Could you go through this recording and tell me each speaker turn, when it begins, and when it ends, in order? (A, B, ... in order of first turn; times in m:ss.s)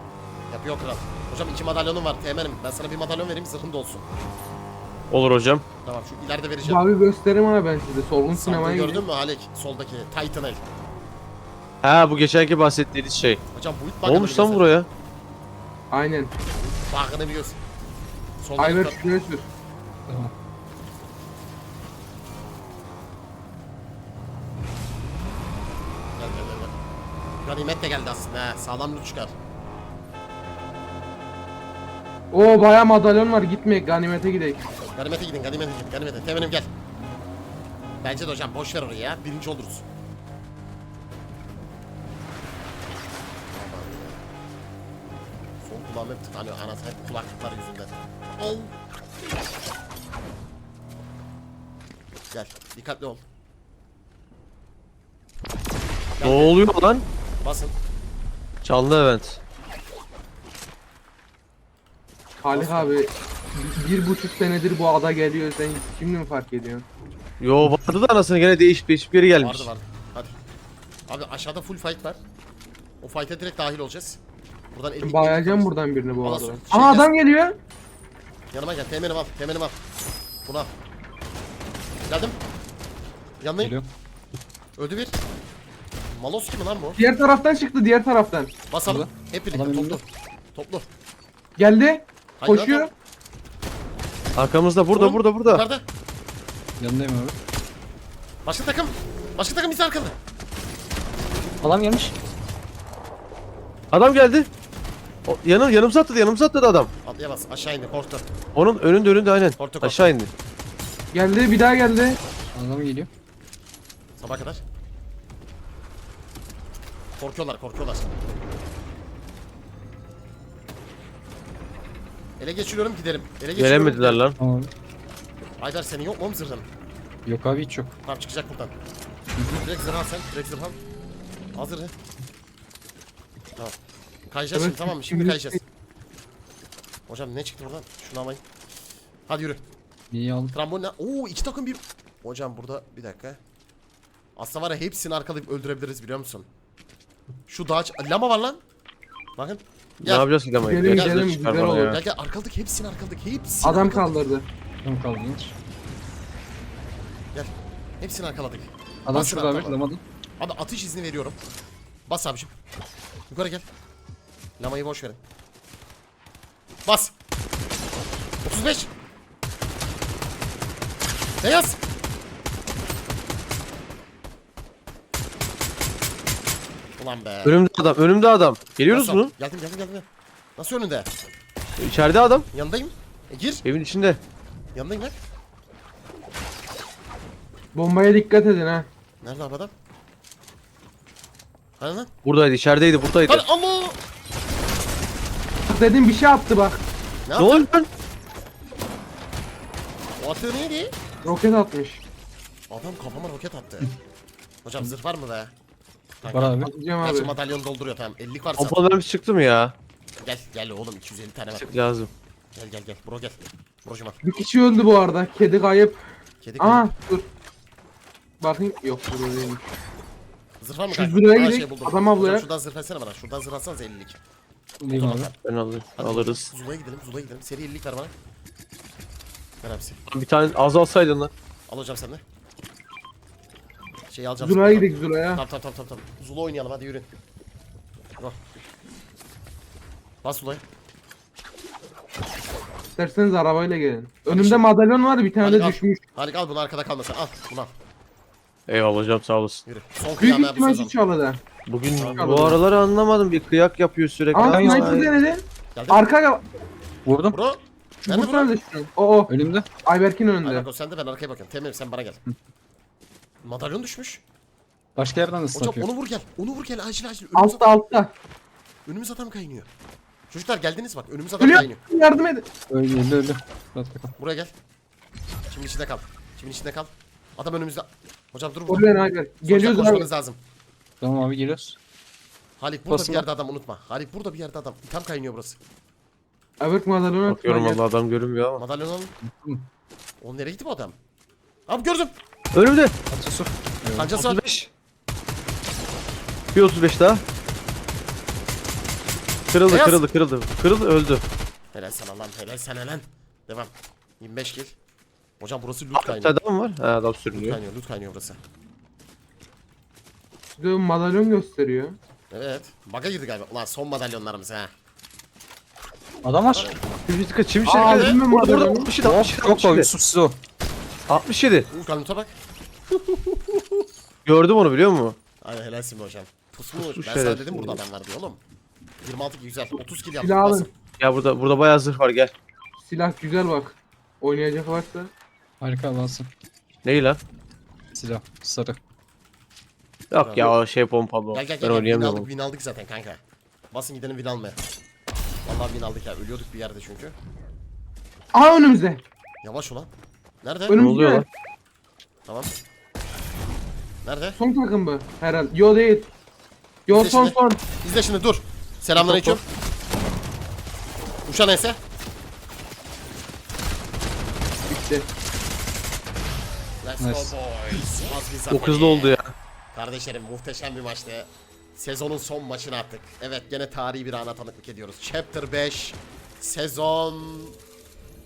0:00.5-0:04.0 A
0:05.1-0:05.6 B
0:05.8-0:06.8 A
0:06.6-0:09.0 C
0:08.3-0:10.6 A
0:11.8-0:13.4 B
0:13.5-0:14.8 A
0:14.0-0:14.9 B
0:15.9-0:16.3 C
0:16.6-0:17.6 A
0:18.4-0:19.0 A
0:18.6-0:19.5 C
0:20.1-0:20.3 D
0:26.2-0:26.7 A
0:27.4-0:29.3 A
0:32.3-0:34.6 C
0:35.0-0:36.7 A
0:38.0-0:39.8 A
0:43.5-0:44.2 A
0:45.6-0:48.7 A
0:52.3-0:53.2 A
0:56.2-0:56.6 A
0:56.2-0:57.0 B
0:57.4-0:57.7 A
0:58.6-0:59.4 B
1:02.4-1:06.8 C
1:02.5-1:03.0 A
1:07.4-1:09.7 B
1:09.4-1:10.3 A
1:11.1-1:12.2 A
1:13.0-1:14.2 A
1:14.7-1:17.1 A
1:15.0-1:17.6 C
1:18.5-1:19.8 A
1:20.4-1:20.7 A
1:22.1-1:22.4 A
1:23.4-1:23.7 A
1:23.6-1:23.9 D
1:24.8-1:25.1 A
1:26.1-1:27.0 A
1:27.0-1:28.5 C
1:28.7-1:30.0 A
1:28.8-1:30.0 D
1:30.5-1:30.8 A
1:31.6-1:32.9 C
1:32.4-1:32.9 A
1:34.4-1:35.6 B
1:34.9-1:35.8 A
1:36.8-1:37.3 D
1:38.4-1:40.1 A
1:41.6-1:42.1 D
1:43.9-1:44.5 B
1:45.2-1:46.9 B
1:47.0-1:48.3 A
1:48.5-1:50.3 B
1:49.6-1:50.1 A
1:51.1-1:52.2 C
1:52.5-1:53.1 D
1:54.2-1:54.6 A
1:57.2-1:58.1 A
2:02.4-2:04.2 A
2:03.6-2:04.4 B
2:04.4-2:04.7 D
2:05.6-2:06.7 A
2:07.2-2:07.9 D
2:08.0-2:08.7 A
2:09.4-2:09.6 D
2:09.6-2:10.8 A
2:11.5-2:11.9 A
2:14.3-2:15.6 A
2:14.5-2:15.6 C
2:17.1-2:18.4 A
2:19.3-2:19.6 A
2:20.1-2:20.5 D
2:20.5-2:23.4 A
2:24.4-2:26.5 A
2:27.5-2:28.6 A
2:29.4-2:30.3 A
2:30.0-2:32.0 B
2:30.6-2:32.0 C
2:30.9-2:31.2 A
2:31.9-2:34.1 A
2:33.6-2:34.5 C
2:34.8-2:35.5 D
2:37.3-2:39.8 A
2:39.0-2:40.0 D
2:40.4-2:41.4 A
2:42.1-2:42.5 A
2:43.3-2:43.6 A
2:44.6-2:45.2 A
2:46.8-2:47.1 A
2:48.4-2:48.9 A
2:51.4-2:51.8 A
2:57.0-2:57.6 A
2:57.4-2:59.3 B
2:58.9-3:00.0 A
3:00.6-3:01.1 A
3:01.8-3:02.4 B
3:02.5-3:03.6 A
3:03.6-3:04.2 B
3:04.7-3:05.1 A
3:07.7-3:08.9 C
3:09.2-3:09.7 A
3:11.8-3:12.1 A
3:12.2-3:13.4 B
3:13.2-3:14.0 A
3:15.7-3:16.8 C
3:17.3-3:17.7 A
3:17.4-3:17.9 B
3:20.2-3:20.9 A
3:21.2-3:22.0 C
3:22.7-3:23.9 A
3:24.6-3:25.5 A
3:26.2-3:28.8 A
3:26.3-3:26.7 D
3:26.6-3:27.3 C
3:28.6-3:29.7 B
3:30.2-3:31.7 A
3:31.5-3:32.1 B
3:32.5-3:34.2 A
3:34.2-3:36.0 C
3:36.4-3:36.9 A
3:36.6-3:37.3 C
3:38.4-3:39.6 C
3:40.6-3:44.2 A
3:40.9-3:42.5 C
3:44.8-3:45.3 D
3:44.9-3:45.4 A
3:45.4-3:46.5 B
3:46.0-3:48.1 A
3:49.6-3:50.0 A
3:50.1-3:51.3 B
3:51.7-3:52.2 A
3:54.1-3:57.1 A
3:54.4-3:55.4 C
4:00.2-4:00.6 A
4:03.0-4:06.0 C
4:04.3-4:04.7 A
4:05.4-4:07.7 A
4:08.7-4:09.6 B
4:09.6-4:10.9 A
4:10.2-4:11.4 C
4:11.7-4:15.1 B
4:12.0-4:12.6 C
4:14.3-4:16.4 C
4:14.4-4:15.0 D
4:15.7-4:16.0 A
4:17.0-4:17.4 D
4:17.3-4:18.5 A
4:18.0-4:19.3 C
4:19.3-4:19.7 D
4:19.8-4:20.7 C
4:20.4-4:22.2 A
4:23.4-4:24.2 A
4:25.0-4:25.9 D
4:25.5-4:27.6 A
4:27.3-4:28.1 C
4:28.8-4:29.7 A
4:30.3-4:31.8 A
4:31.4-4:32.5 C
4:32.7-4:34.1 D
4:34.2-4:34.5 A
4:35.5-4:38.9 A
4:38.7-4:40.1 C
4:39.4-4:40.4 A
4:41.0-4:41.8 D
4:42.6-4:45.6 A
4:42.9-4:43.2 D
4:46.6-4:47.8 C
4:47.2-4:48.6 B
4:48.6-4:49.1 A
4:49.2-4:49.6 D
4:50.2-4:51.0 A
4:51.7-4:52.1 A
4:52.5-4:52.9 B
4:53.1-4:54.1 D
4:53.9-4:54.4 A
4:54.1-4:54.7 B
4:56.5-4:57.2 B
4:59.5-5:01.2 B
4:59.7-5:00.0 A
5:01.7-5:04.8 A
5:05.4-5:06.4 A
5:06.0-5:07.6 B
5:07.3-5:08.4 A
5:10.5-5:12.0 C
5:12.3-5:14.7 A
5:16.2-5:16.7 D
5:16.5-5:16.8 A
5:17.0-5:19.9 B
5:17.6-5:18.2 A
5:17.6-5:18.9 C
5:19.0-5:20.4 D
5:21.1-5:21.7 B
5:21.7-5:22.3 A
5:22.9-5:23.8 A
5:24.2-5:25.2 B
5:25.4-5:28.4 A
5:26.7-5:27.8 B
5:29.0-5:30.7 A
5:30.2-5:30.7 C
5:31.0-5:32.3 B
5:32.8-5:35.1 C
5:35.6-5:36.3 D
5:36.8-5:37.2 B
5:37.9-5:38.8 D
5:40.1-5:42.3 B
5:40.2-5:40.6 A
5:41.3-5:43.2 A
5:43.7-5:44.6 A
5:45.4-5:47.1 A
5:48.3-5:49.0 C
5:49.4-5:49.9 A
5:50.4-5:50.8 A
5:50.7-5:51.2 C
5:50.8-5:51.2 B
5:52.2-5:52.5 A
5:54.0-5:54.4 A
5:54.4-5:56.1 C
5:56.8-5:57.6 C
5:56.9-5:59.4 A
5:59.0-5:59.4 C
6:01.2-6:01.8 A
6:04.7-6:05.1 C
6:06.8-6:09.2 A
6:07.0-6:07.3 D
6:08.5-6:09.3 B
6:09.7-6:17.6 A